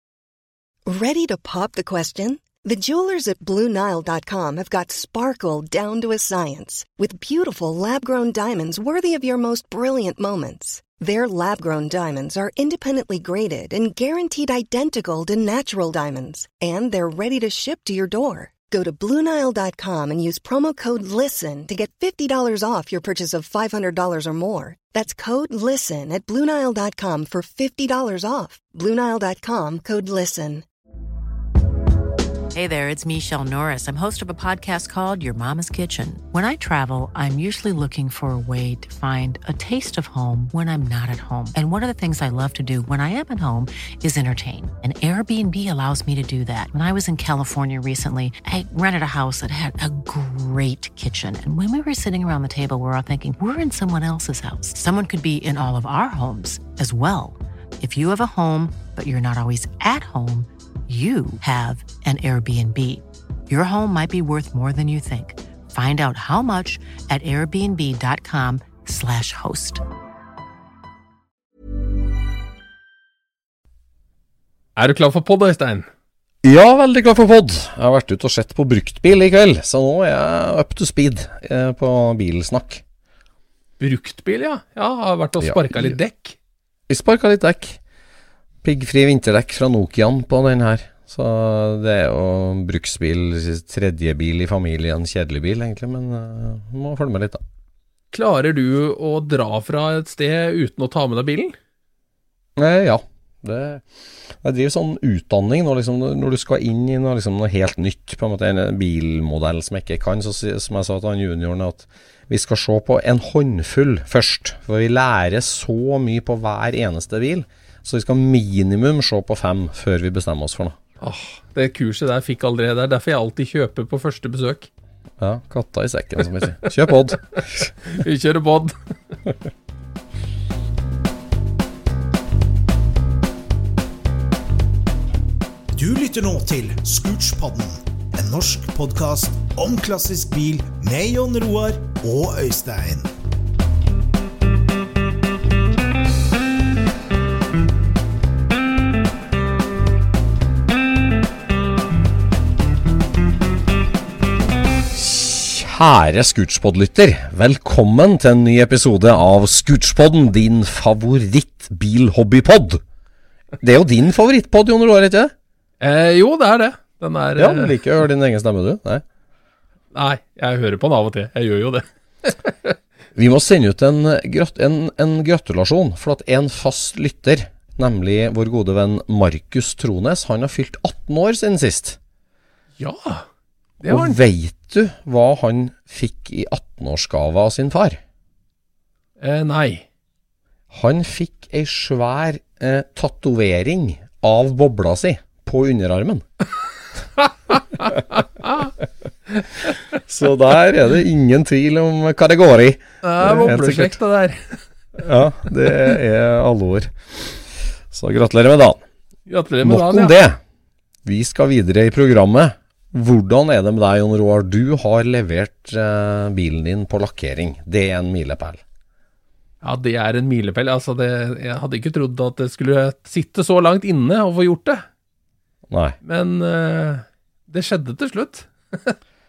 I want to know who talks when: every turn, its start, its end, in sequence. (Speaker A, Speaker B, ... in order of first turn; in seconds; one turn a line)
Speaker A: 0.9-30.6
Speaker B: 32.5-69.8
Speaker C: 74.8-75.9
Speaker D: 76.4-82.8
Speaker C: 83.8-86.4
Speaker D: 85.4-86.0
Speaker D: 86.9-87.8
Speaker D: 88.6-97.4
Speaker C: 98.1-101.6
Speaker D: 102.6-103.8
Speaker D: 104.4-120.8
Speaker C: 121.0-124.7
Speaker D: 125.2-127.7
Speaker C: 127.9-128.7
Speaker E: 135.8-143.1
Speaker D: 154.9-162.8
Speaker D: 163.6-165.3
Speaker C: 165.8-167.8
Speaker D: 167.4-169.0
Speaker C: 169.9-172.8
Speaker D: 173.2-182.0
Speaker C: 182.8-183.3
Speaker C: 183.8-184.2
Speaker D: 183.9-188.0
Speaker C: 189.2-189.8
Speaker D: 190.7-196.2
Speaker C: 197.2-198.7
Speaker C: 199.3-200.0
Speaker D: 199.9-204.0
Speaker C: 203.0-204.6
Speaker D: 205.0-208.8
Speaker C: 209.3-210.2
Speaker D: 209.6-210.4
Speaker D: 211.0-218.6
Speaker C: 219.6-224.8
Speaker D: 225.7-226.0
Speaker C: 226.0-229.0